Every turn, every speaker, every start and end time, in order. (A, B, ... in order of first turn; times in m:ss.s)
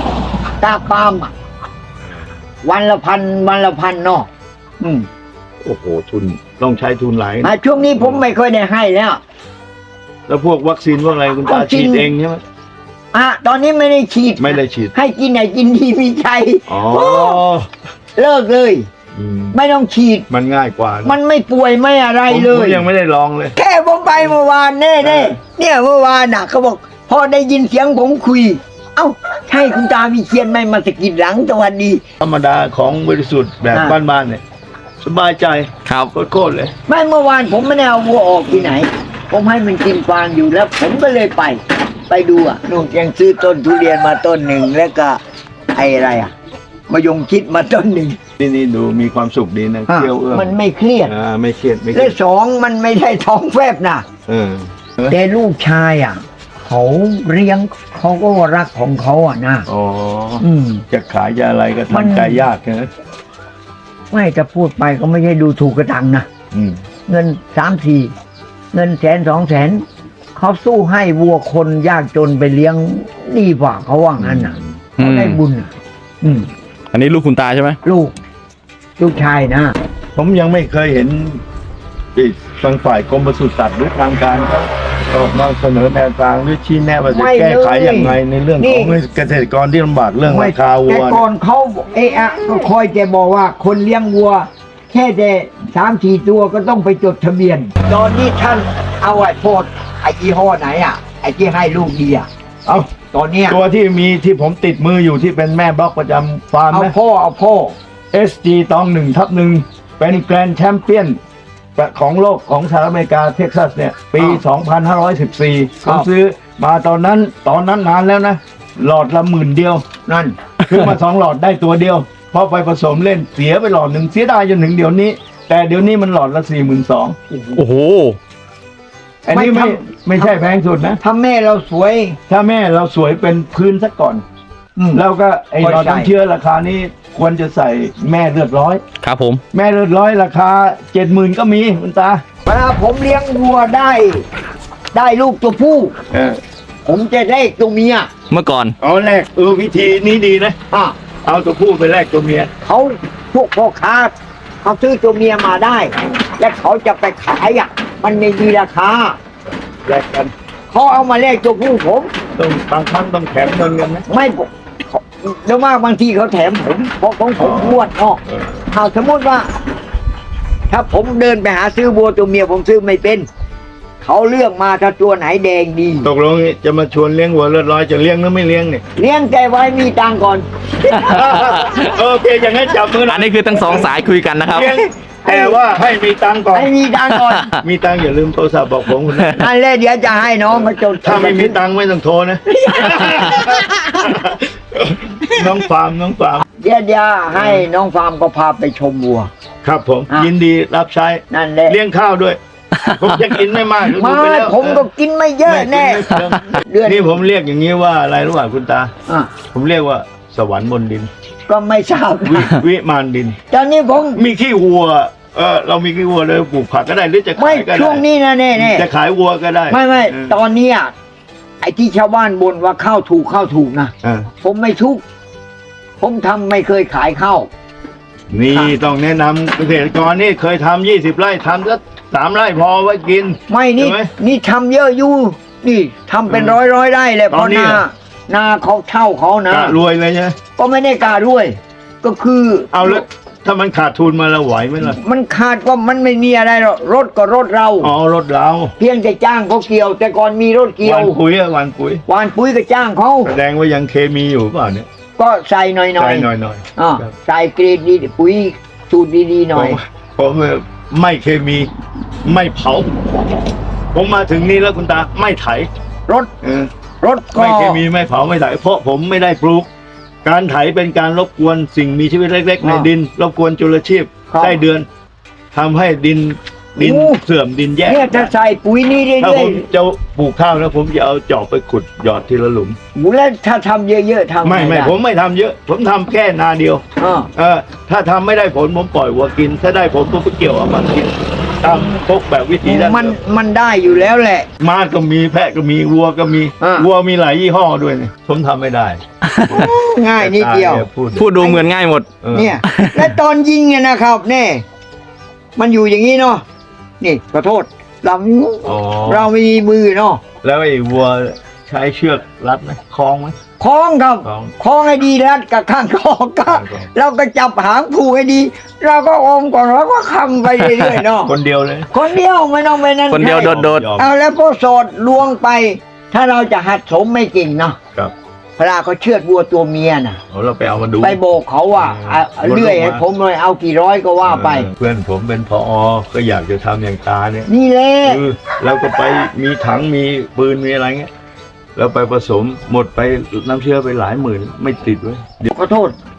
0:00.6-0:01.3 A
0:02.6-0:04.3 A
0:04.8-0:05.1 A
0:05.6-0:08.3 B
0:07.4-0:09.2 A
0:10.3-0:12.4 B
0:11.4-0:12.1 A
0:13.1-0:17.4 A
0:14.4-0:14.9 B
0:16.7-0:17.7 B
0:18.2-0:18.9 A
0:19.1-0:19.6 B
0:19.5-0:20.2 A
0:20.3-0:21.2 B
0:21.0-0:22.8 A
0:22.3-0:23.6 B
0:23.6-0:32.0 A
0:25.0-0:25.4 B
0:32.2-0:34.4 B
0:35.0-0:36.7 B
0:35.8-0:36.1 C
0:36.9-0:45.2 A
0:45.7-0:46.3 A
0:46.9-0:48.2 A
0:48.4-0:52.2 B
0:49.9-0:51.1 A
0:51.9-0:54.0 A
0:54.3-0:55.2 B
0:55.1-0:59.7 A
0:59.7-1:02.9 B
1:00.4-1:00.8 A
1:01.9-1:02.4 A
1:04.1-1:06.2 A
1:06.5-1:06.8 B
1:07.1-1:08.1 A
1:08.7-1:09.8 A
1:10.4-1:15.7 A
1:14.2-1:14.8 B
1:15.0-1:15.4 C
1:16.2-1:16.5 A
1:16.9-1:17.8 C
1:17.8-1:18.1 A
1:19.0-1:19.7 A
1:20.1-1:21.4 B
1:22.1-1:31.2 B
1:27.1-1:28.9 A
1:30.2-1:42.3 A
1:42.6-1:42.9 B
1:43.1-1:43.6 A
1:43.5-1:46.9 B
1:46.7-1:47.8 A
1:48.1-1:51.2 B
1:51.8-1:59.8 B
1:55.8-1:56.1 A
2:00.0-2:00.4 A
2:00.7-2:07.2 B
2:07.3-2:07.6 A
2:07.5-2:08.2 C
2:09.2-2:11.0 B
2:09.3-2:10.3 A
2:11.0-2:12.2 A
2:12.3-2:14.2 B
2:14.8-2:15.0 A
2:14.9-2:18.8 B
2:15.6-2:16.1 A
2:19.0-2:19.4 C
2:19.5-2:22.2 B
2:22.4-2:24.2 A
2:24.9-2:25.9 A
2:26.1-2:26.4 B
2:26.8-2:28.1 A
2:28.3-2:28.7 C
2:28.8-2:30.6 B
2:30.7-2:31.0 A
2:31.2-2:32.5 B
2:32.6-2:39.2 A
2:39.8-2:40.3 B
2:40.7-2:42.1 A
2:42.4-2:44.1 B
2:44.1-2:49.5 A
2:47.4-2:48.6 B
2:50.7-2:53.3 A
2:54.0-2:56.1 A
2:56.0-2:58.8 B
2:59.0-3:00.9 A
3:00.9-3:03.8 B
3:01.0-3:01.9 C
3:03.0-3:04.7 C
3:04.5-3:06.7 B
3:05.2-3:05.6 A
3:06.5-3:07.5 A
3:07.1-3:07.6 C
3:07.6-3:09.4 B
3:09.3-3:11.6 A
3:10.5-3:16.4 B
3:12.5-3:14.2 A
3:16.6-3:19.3 A
3:17.3-3:17.7 B
3:19.6-3:24.9 B
3:21.3-3:21.8 A
3:23.9-3:27.2 A
3:25.4-3:28.9 B
3:29.1-3:29.3 A
3:29.5-3:31.1 B
3:31.5-3:32.6 A
3:32.2-3:33.4 B
3:33.5-3:34.2 A
3:34.1-3:38.0 B
3:37.4-3:38.8 A
3:38.6-3:40.4 B
3:39.7-3:40.9 A
3:41.6-3:45.0 A
3:44.0-3:44.3 B
3:46.0-3:47.5 A
3:48.3-3:54.1 B
3:53.5-3:59.8 A
3:56.3-3:56.6 B
3:57.3-3:57.8 B
3:59.5-4:00.4 B
4:00.6-4:03.0 A
4:02.7-4:05.0 B
4:04.9-4:07.9 A
4:07.8-4:08.7 B
4:08.8-4:11.2 A
4:10.8-4:12.0 B
4:12.1-4:13.3 A
4:13.2-4:14.9 B
4:15.2-4:19.8 A
4:16.0-4:17.1 B
4:19.5-4:21.7 B
4:22.2-4:22.9 B
4:23.9-4:25.7 B
4:26.4-4:26.7 B
4:27.0-4:27.8 A
4:27.4-4:29.7 B
4:30.2-4:34.9 B
4:32.6-4:32.9 A
4:34.3-4:34.6 A
4:35.5-4:38.3 B
4:36.8-4:37.2 A
4:37.8-4:39.6 A
4:39.2-4:42.8 B
4:42.9-4:44.9 A
4:44.4-4:46.8 B
4:47.0-4:47.3 A
4:47.3-4:53.2 B
4:52.6-4:54.5 A
4:54.6-4:59.0 B
4:56.6-4:56.9 A
4:59.3-4:59.7 C
4:59.4-5:00.8 A
5:00.2-5:01.3 B
5:01.2-5:02.1 C
5:02.2-5:02.6 B
5:02.3-5:04.6 A
5:02.6-5:03.1 C
5:05.6-5:06.4 A
5:07.0-5:10.2 A
5:08.6-5:09.3 B
5:10.4-5:13.4 B
5:13.6-5:21.3 A
5:14.2-5:14.5 B
5:16.4-5:16.9 B
5:21.2-5:21.9 B
5:21.9-5:27.8 A
5:23.1-5:23.8 C
5:23.2-5:24.1 B
5:28.6-5:30.2 A
5:30.3-5:31.2 B
5:31.0-5:34.7 A
5:31.7-5:33.0 B
5:34.2-5:37.5 B
5:37.5-5:38.2 A
5:38.0-5:41.1 B
5:41.8-5:45.5 B
5:45.5-5:45.9 A